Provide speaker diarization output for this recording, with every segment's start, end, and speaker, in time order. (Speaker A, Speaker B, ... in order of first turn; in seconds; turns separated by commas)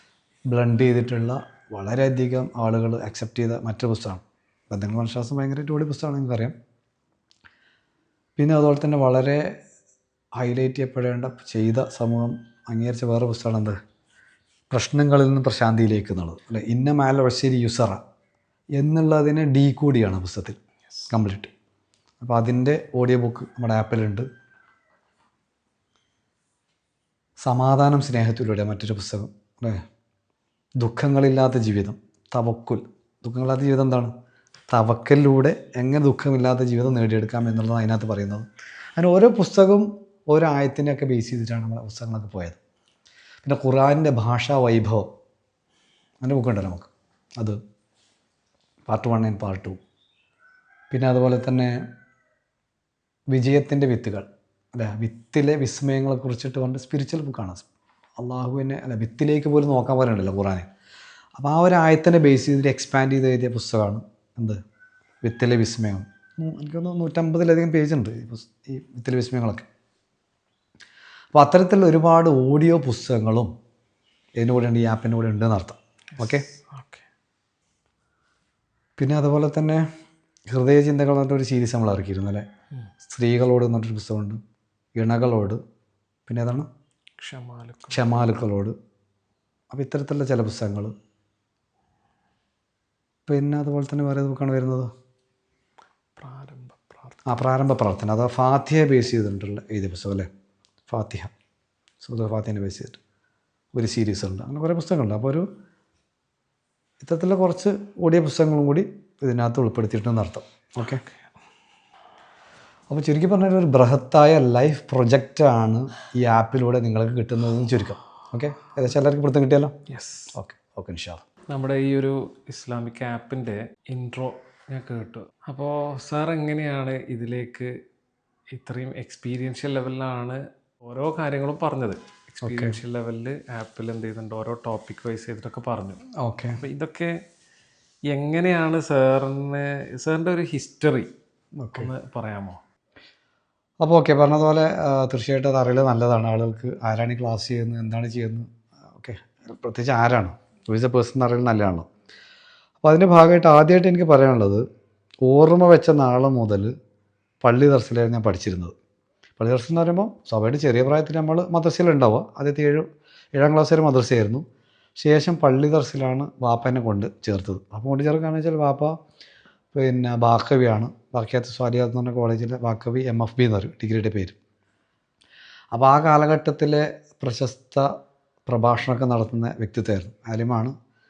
Speaker A: 0.5-6.5, Speaker A: 8.4-9.6, Speaker A: 10.4-13.8, Speaker A: 14.7-18.0, Speaker A: 18.8-20.6, Speaker A: 21.1-21.5, Speaker A: 22.2-24.3, Speaker A: 27.4-29.8, Speaker A: 30.8-34.1, Speaker A: 34.7-38.4, Speaker A: 39.0-42.6, Speaker A: 43.4-45.1, Speaker A: 46.2-47.6, Speaker A: 48.9-49.8, Speaker A: 50.9-51.8, Speaker A: 53.3-57.6, Speaker A: 58.2-60.7, Speaker A: 61.4-64.6, Speaker A: 65.2-69.7, Speaker A: 71.3-73.5, Speaker A: 74.4-76.5, Speaker B: 76.2-77.0, Speaker A: 79.0-79.8, Speaker A: 80.5-82.4, Speaker A: 83.0-84.4, Speaker A: 85.0-85.6, Speaker A: 86.3-86.7, Speaker B: 87.2-88.4, Speaker A: 87.9-88.7, Speaker A: 89.7-90.9, Speaker A: 93.3-94.9, Speaker B: 96.2-97.2, Speaker A: 97.2-100.3, Speaker A: 100.9-101.3, Speaker A: 102.0-103.0, Speaker A: 103.7-105.5, Speaker A: 107.0-111.0, Speaker B: 110.8-111.1, Speaker A: 112.9-119.8, Speaker B: 119.9-120.3, Speaker A: 120.3-121.2, Speaker B: 121.5-127.7, Speaker B: 128.5-136.0, Speaker A: 132.4-132.8, Speaker A: 136.1-136.6, Speaker B: 136.6-137.2, Speaker B: 138.1-141.1, Speaker A: 141.6-141.9, Speaker B: 141.7-142.6, Speaker A: 143.8-151.9, Speaker A: 152.8-154.6, Speaker A: 155.2-156.7, Speaker A: 157.4-158.7, Speaker A: 159.4-164.4, Speaker A: 165.0-168.9, Speaker A: 169.7-174.3, Speaker A: 175.7-177.9, Speaker A: 178.4-180.7